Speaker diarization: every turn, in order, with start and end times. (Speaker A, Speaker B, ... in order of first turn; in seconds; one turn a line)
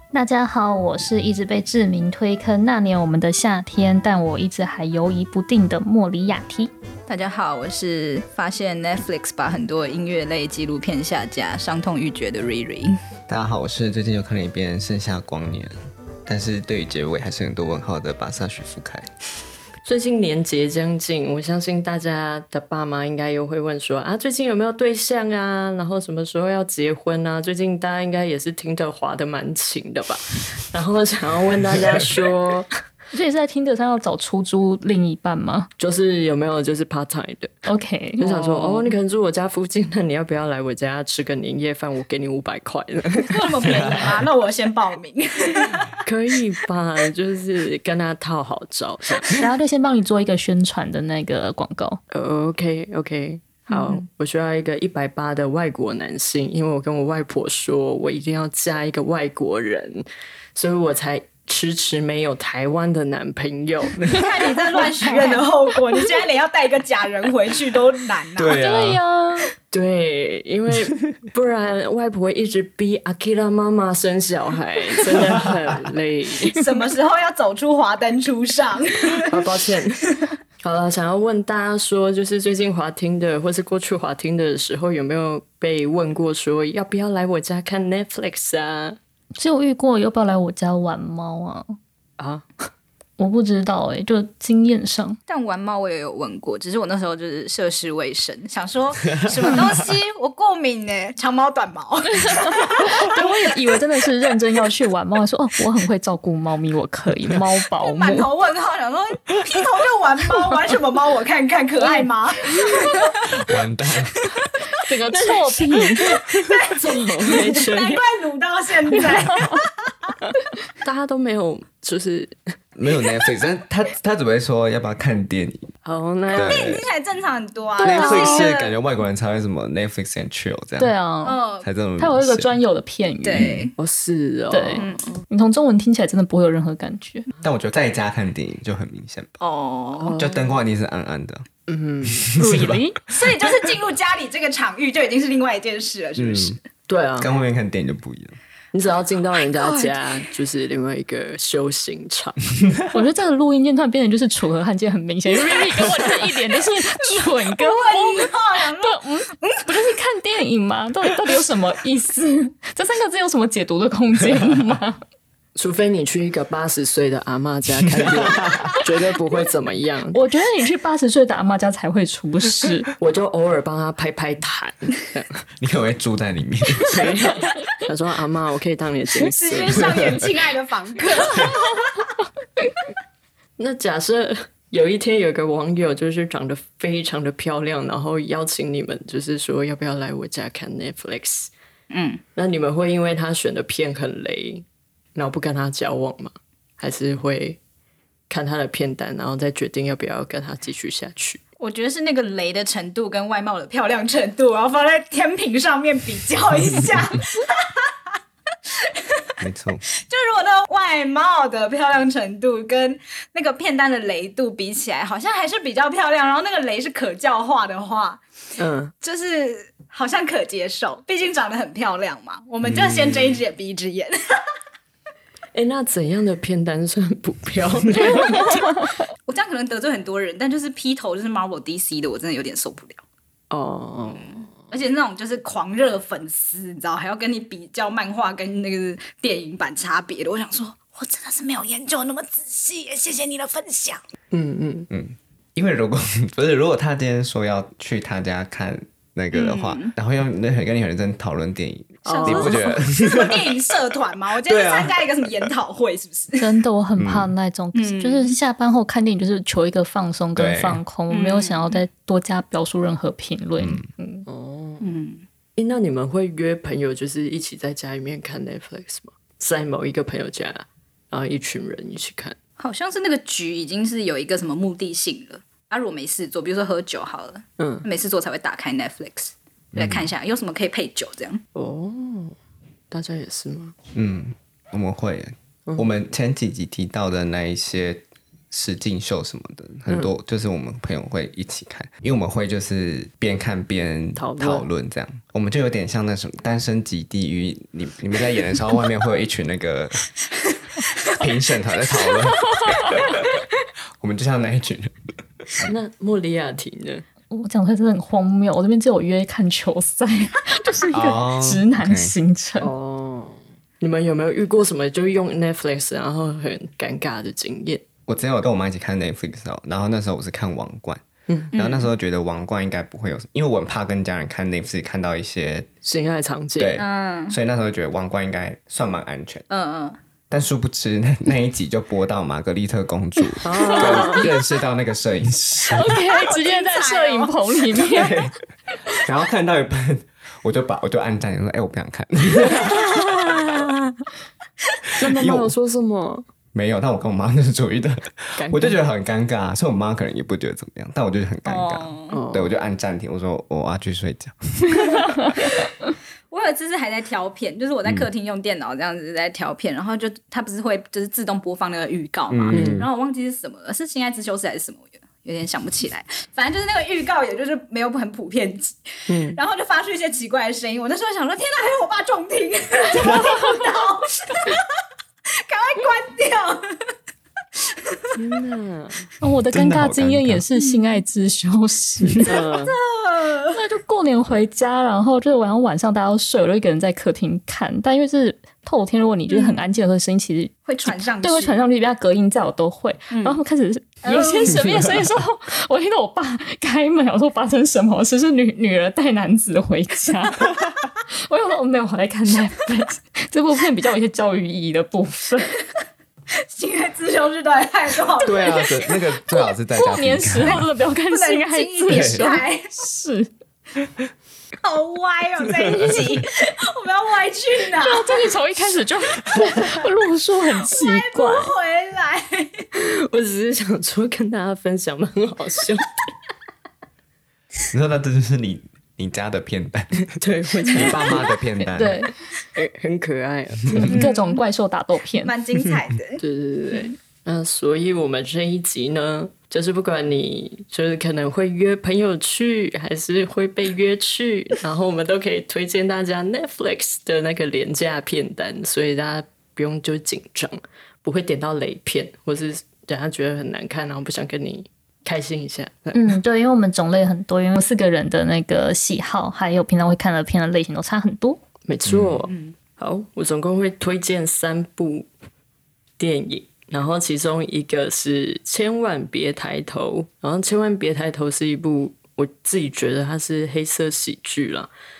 Speaker A: 0.1-6.7
Speaker B: 7.1-12.9
Speaker C: 13.3-15.7
Speaker C: 16.2-19.1
Speaker D: 19.8-32.7
Speaker A: 33.1-35.7
Speaker D: 35.8-37.6
Speaker A: 37.6-38.3
Speaker D: 38.2-43.9
Speaker B: 43.3-46.0
Speaker D: 46.0-49.4
Speaker A: 49.4-52.0
Speaker D: 52.1-64.2
Speaker B: 53.7-54.0
Speaker B: 64.1-68.6
Speaker C: 68.4-69.0
Speaker A: 68.6-69.5
Speaker D: 69.7-76.6
Speaker B: 76.5-79.4
Speaker D: 79.2-80.0
Speaker D: 80.6-89.0
Speaker A: 89.3-91.8
Speaker D: 92.2-92.5
Speaker A: 93.2-95.2
Speaker B: 95.3-103.2
Speaker A: 102.2-108.3
Speaker B: 107.8-113.4
Speaker A: 111.8-112.8
Speaker C: 113.2-114.3
Speaker A: 114.7-116.2
Speaker B: 116.0-120.1
Speaker D: 116.3-118.0
Speaker A: 119.0-119.6
Speaker D: 120.8-122.4
Speaker C: 122.8-125.7
Speaker D: 125.8-126.8
Speaker C: 126.3-126.8
Speaker B: 126.3-128.7
Speaker C: 127.8-130.9
Speaker D: 127.8-128.4
Speaker A: 130.8-131.4
Speaker B: 131.2-131.7
Speaker C: 131.6-132.5
Speaker A: 132.0-133.6
Speaker B: 133.2-133.7
Speaker C: 133.3-133.7
Speaker D: 133.8-134.9
Speaker A: 134.5-137.3
Speaker B: 134.8-135.2
Speaker C: 137.4-139.3
Speaker B: 139.4-140.1
Speaker D: 140.0-140.5
Speaker C: 140.1-141.4
Speaker D: 141.7-142.3
Speaker C: 142.1-142.8
Speaker A: 142.4-143.0
Speaker B: 143.1-146.6
Speaker C: 146.2-146.6
Speaker D: 146.9-147.3
Speaker C: 147.2-148.4
Speaker D: 148.7-152.4
Speaker B: 149.5-150.2
Speaker A: 152.9-165.0
Speaker B: 157.5-159.6
Speaker D: 165.5-170.2
Speaker C: 168.0-168.8
Speaker A: 170.1-172.9
Speaker D: 173.0-175.4
Speaker C: 175.6-177.6
Speaker D: 176.9-180.2
Speaker B: 179.2-182.1
Speaker C: 179.7-180.2
Speaker D: 183.6-191.5
Speaker B: 191.9-192.2
Speaker D: 192.3-197.6
Speaker D: 198.3-201.4
Speaker B: 201.6-208.2
Speaker B: 208.7-209.3
Speaker C: 209.4-209.8
Speaker B: 210.0-218.2
Speaker D: 218.6-218.9
Speaker B: 219.0-224.4
Speaker C: 222.6-223.4
Speaker D: 225.5-228.6
Speaker B: 228.1-233.0
Speaker D: 233.5-234.4
Speaker B: 234.2-244.0
Speaker D: 244.3-244.9
Speaker C: 244.9-253.8
Speaker B: 249.3-249.9
Speaker D: 252.0-252.7
Speaker B: 252.1-256.5
Speaker C: 254.4-255.5
Speaker A: 256.4-264.3
Speaker C: 257.0-257.3
Speaker B: 257.7-258.3
Speaker C: 260.4-260.8
Speaker B: 261.1-261.8
Speaker C: 263.6-263.9
Speaker D: 264.3-264.8
Speaker B: 264.8-265.2
Speaker D: 265.6-272.4
Speaker B: 272.6-281.4
Speaker D: 277.6-277.8
Speaker C: 279.7-280.1
Speaker D: 281.5-282.4
Speaker D: 282.9-283.7
Speaker C: 283.9-300.1
Speaker D: 294.1-294.7
Speaker C: 301.0-303.4
Speaker C: 304.0-305.7
Speaker D: 305.6-307.0
Speaker A: 307.3-312.7
Speaker C: 310.9-312.1
Speaker D: 312.6-317.8
Speaker C: 318.1-325.7
Speaker B: 321.5-321.9
Speaker D: 325.8-326.8
Speaker C: 326.6-329.4
Speaker B: 326.8-327.4
Speaker B: 329.5-330.0
Speaker C: 330.3-336.0
Speaker D: 333.4-334.3
Speaker A: 333.6-334.1
Speaker B: 333.8-334.3
Speaker A: 335.7-338.1
Speaker B: 336.1-338.1
Speaker C: 337.9-338.4
Speaker C: 338.9-343.5
Speaker D: 342.6-343.7
Speaker D: 345.0-346.2
Speaker C: 345.0-345.5
Speaker C: 346.5-355.6
Speaker D: 348.4-348.8
Speaker B: 351.4-352.2
Speaker D: 352.1-352.6
Speaker B: 356.3-374.7
Speaker C: 362.3-362.9
Speaker D: 362.5-362.9
Speaker D: 369.1-369.4
Speaker B: 375.3-376.7
Speaker B: 377.6-378.1
Speaker D: 378.1-379.1
Speaker A: 379.2-382.3
Speaker C: 379.5-380.4
Speaker B: 380.6-380.8
Speaker D: 382.2-382.8
Speaker B: 382.2-383.6
Speaker A: 383.5-400.6
Speaker B: 389.3-389.7
Speaker B: 390.6-391.5
Speaker B: 393.1-393.4
Speaker B: 394.0-395.0
Speaker A: 401.2-405.5
Speaker B: 406.5-409.4
Speaker C: 408.2-410.6
Speaker A: 409.7-413.3
Speaker B: 411.1-412.7
Speaker C: 411.9-412.2
Speaker B: 414.6-418.3
Speaker C: 415.6-416.0
Speaker A: 417.8-421.5
Speaker B: 420.6-422.6
Speaker D: 422.7-425.9
Speaker C: 427.7-432.1
Speaker D: 430.1-431.3
Speaker B: 430.8-431.1
Speaker A: 431.7-432.1
Speaker D: 432.5-434.0
Speaker A: 433.7-435.3
Speaker B: 433.9-434.4
Speaker B: 435.2-436.2
Speaker D: 436.2-456.1
Speaker A: 455.9-461.4
Speaker D: 461.6-465.1
Speaker C: 461.8-462.2
Speaker B: 462.3-462.5
Speaker D: 466.0-474.7